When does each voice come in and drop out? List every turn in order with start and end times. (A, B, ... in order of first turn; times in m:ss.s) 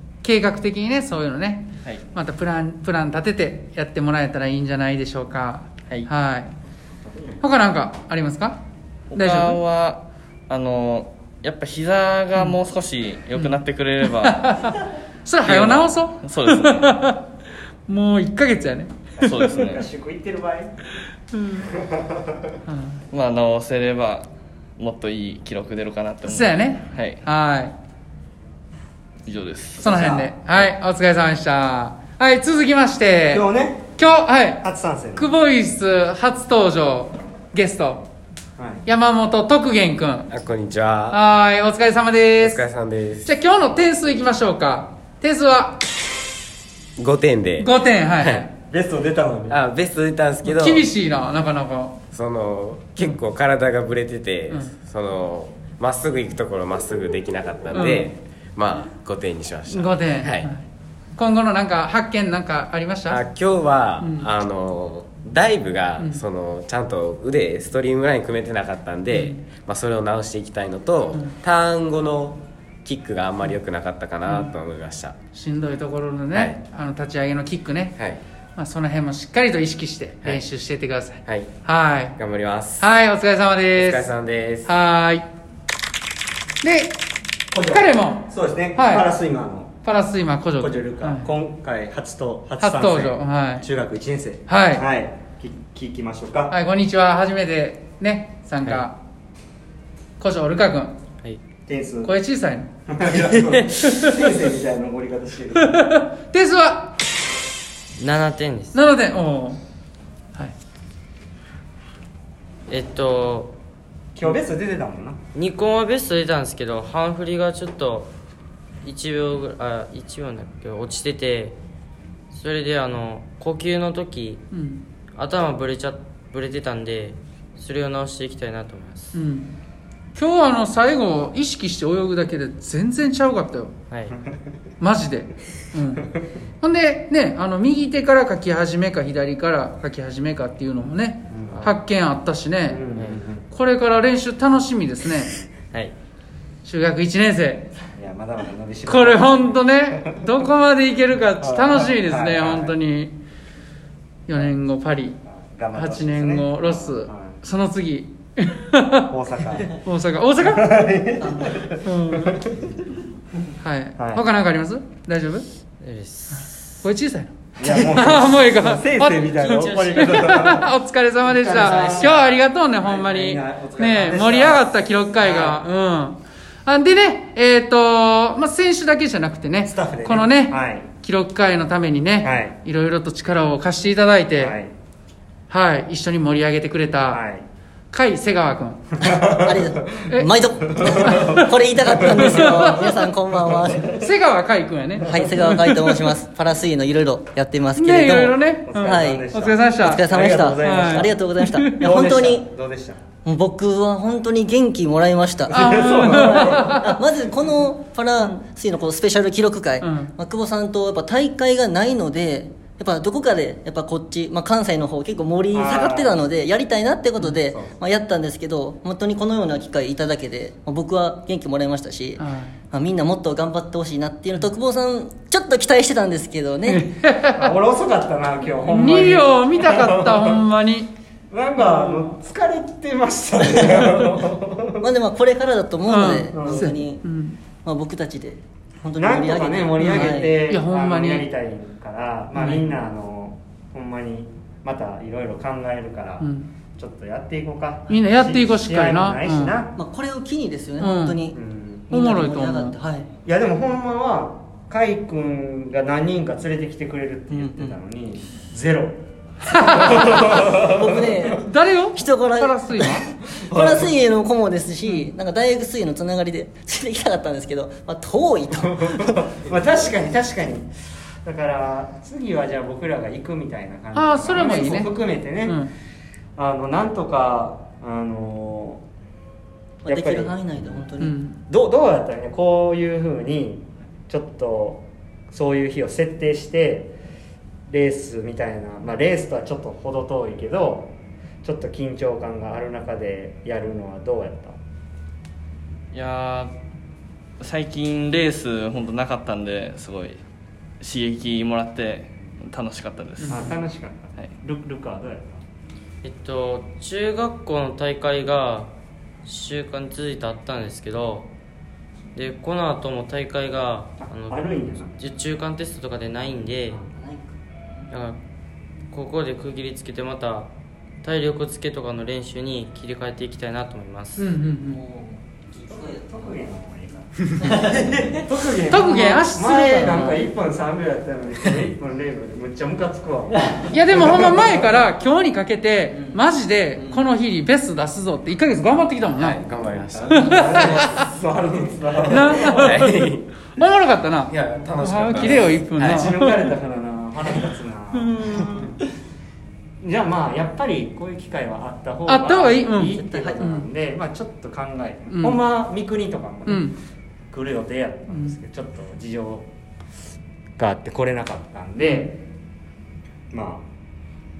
0:00.2-0:06.5 A
0:07.1-0:07.3 B
0:07.4-0:08.6 A
0:09.1-0:14.5 C
0:09.2-0:09.6 A
0:14.2-0:14.7 A
0:15.2-0:17.3 A
0:15.4-0:16.9 C
0:17.9-0:19.5 A
0:19.2-0:20.7 B
0:19.3-0:19.8 C
0:21.3-0:21.7 A
0:21.8-0:22.3 B
0:22.7-0:23.0 A
0:23.1-0:24.3 C
0:24.8-0:27.2 C
0:26.2-0:27.7 A
0:29.3-0:29.8 C
0:29.8-0:33.4 A
0:29.8-0:30.7 B
0:33.3-0:33.9 B
0:34.0-0:34.6 A
0:34.6-0:35.4 B
0:35.2-0:38.0 A
0:38.6-0:38.8 B
0:38.9-0:40.3 A
0:40.3-0:41.2 D
0:41.1-0:42.6 A
0:42.4-0:43.3 D
0:43.2-0:45.8 A
0:47.0-0:48.5 D
0:47.6-0:48.5 A
0:48.7-0:49.6 B
0:49.5-0:50.9 D
0:50.4-0:52.0 A
0:52.1-1:00.5 D
0:54.5-0:54.8 A
0:57.7-0:58.1 A
0:59.7-1:00.6 A
1:01.2-1:03.2 A
1:03.1-1:15.2 D
1:04.0-1:04.3 A
1:06.0-1:06.2 A
1:09.1-1:09.4 A
1:14.3-1:14.5 A
1:15.3-1:18.0 A
1:16.3-1:16.6 D
1:18.6-1:22.2 A
1:22.2-1:22.9 D
1:22.8-1:24.1 A
1:23.7-1:24.7 D
1:24.6-1:25.3 A
1:26.6-1:27.0 A
1:27.5-1:29.8 B
1:27.7-1:29.1 A
1:29.8-1:31.3 A
1:30.6-1:36.6 B
1:32.6-1:33.7 A
1:34.5-1:34.8 A
1:36.5-1:39.0 A
1:40.2-1:41.0 A
1:41.7-1:42.2 B
1:42.0-1:42.7 A
1:42.9-1:45.9 B
1:43.8-1:44.3 A
1:45.6-1:47.0 A
1:48.0-1:48.8 E
1:48.7-1:49.6 A
1:52.7-1:53.6 E
1:54.2-1:55.2 B
1:55.4-1:58.1 E
1:58.8-2:01.6 E
2:02.3-2:04.4 E
2:04.5-2:04.8 A
2:05.2-2:09.2 E
2:09.1-2:09.5 A
2:10.2-2:13.7 A
2:14.8-2:16.1 A
2:16.6-2:22.8 A
2:21.3-2:21.7 B
2:21.5-2:21.8 E
2:22.7-2:23.5 B
2:23.0-2:23.2 E
2:23.5-2:25.4 A
2:26.6-2:27.7 A
2:27.9-2:30.3 B
2:28.9-2:33.1 A
2:31.4-2:32.8 B
2:34.3-2:35.2 A
2:35.3-2:37.4 B
2:35.7-2:42.4 A
2:39.1-2:39.7 B
2:40.4-2:42.9 B
2:43.6-2:45.4 A
2:44.0-2:44.2 B
2:45.8-2:46.7 E
2:46.8-3:04.6 A
2:47.6-2:50.7 B
2:49.4-2:50.2 E
2:51.2-2:55.6 B
2:51.5-2:52.2 E
2:59.6-3:00.9 B
3:02.2-3:02.6 B
3:04.4-3:04.7 B
3:05.5-3:07.2 A
3:07.1-3:07.4 B
3:07.9-3:09.0 A
3:09.0-3:14.0 F
3:11.0-3:11.5 A
3:12.0-3:12.9 A
3:13.9-3:16.0 A
3:15.0-3:19.3 F
3:17.8-3:20.0 A
3:18.6-3:21.1 B
3:19.8-3:22.5 F
3:20.6-3:21.9 A
3:21.8-3:23.0 B
3:23.2-3:46.9 F
3:25.5-3:26.9 A
3:25.5-3:26.8 B
3:29.8-3:30.1 A
3:35.5-3:36.2 B
3:37.3-3:37.7 B
3:42.2-3:42.6 A
3:46.7-3:47.5 A
3:47.3-3:50.4 B
3:48.7-3:50.9 A
3:51.3-3:54.9 B
3:51.6-3:52.1 A
3:53.4-3:53.8 F
3:54.8-3:57.0 F
3:55.9-3:57.4 A
3:56.3-3:56.7 B
3:57.6-4:00.4 F
3:59.0-4:09.7 B
3:59.8-4:01.3 A
4:02.4-4:02.7 A
4:06.2-4:06.5 A
4:07.9-4:09.6 A
4:09.8-4:11.4 F
4:10.8-4:11.2 A
4:11.3-4:11.9 B
4:11.9-4:13.1 F
4:11.9-4:12.8 A
4:13.2-4:21.3 B
4:17.3-4:17.7 F
4:19.5-4:20.5 A
4:20.4-4:29.2 F
4:21.3-4:23.1 A
4:23.4-4:24.0 B
4:28.5-4:30.7 B
4:31.2-4:35.6 B
4:33.9-4:35.7 A
4:36.4-4:38.8 B
4:39.8-4:41.2 F
4:39.9-4:40.8 B
4:41.0-4:41.4 A
4:41.5-4:47.0 B
4:47.7-4:54.6 B
4:55.9-4:56.5 C
4:57.4-5:00.2 C
5:00.8-5:03.3 C
5:03.2-5:03.5 A
5:03.3-5:05.4 B
5:06.0-5:08.7 E
5:09.2-5:11.3 E
5:12.2-5:16.8 E
5:14.0-5:15.0 B
5:16.9-5:17.9 F
5:17.9-5:18.2 E
5:18.9-5:20.5 E
5:21.0-5:24.3 E
5:24.2-5:24.8 A
5:24.7-5:26.3 F
5:25.7-5:34.7 B
5:27.4-5:28.2 F
5:28.7-5:30.2 A
5:29.8-5:30.2 F
5:33.7-5:39.4 A
5:36.8-5:37.0 F
5:39.1-5:41.0 D
5:40.1-5:41.1 A
5:40.1-5:42.9 B
5:42.1-5:46.4 A
5:42.5-5:43.3 D
5:44.3-5:46.1 D
5:45.2-5:48.7 B
5:47.9-5:48.8 A
5:49.8-5:56.7 B
5:52.1-5:53.7 A
5:52.9-5:53.4 F
5:55.1-5:55.4 A
5:56.5-5:56.8 A
5:57.3-5:59.5 B
5:58.1-5:58.4 A
6:00.6-6:02.2 B
6:01.8-6:02.2 A
6:03.3-6:03.7 B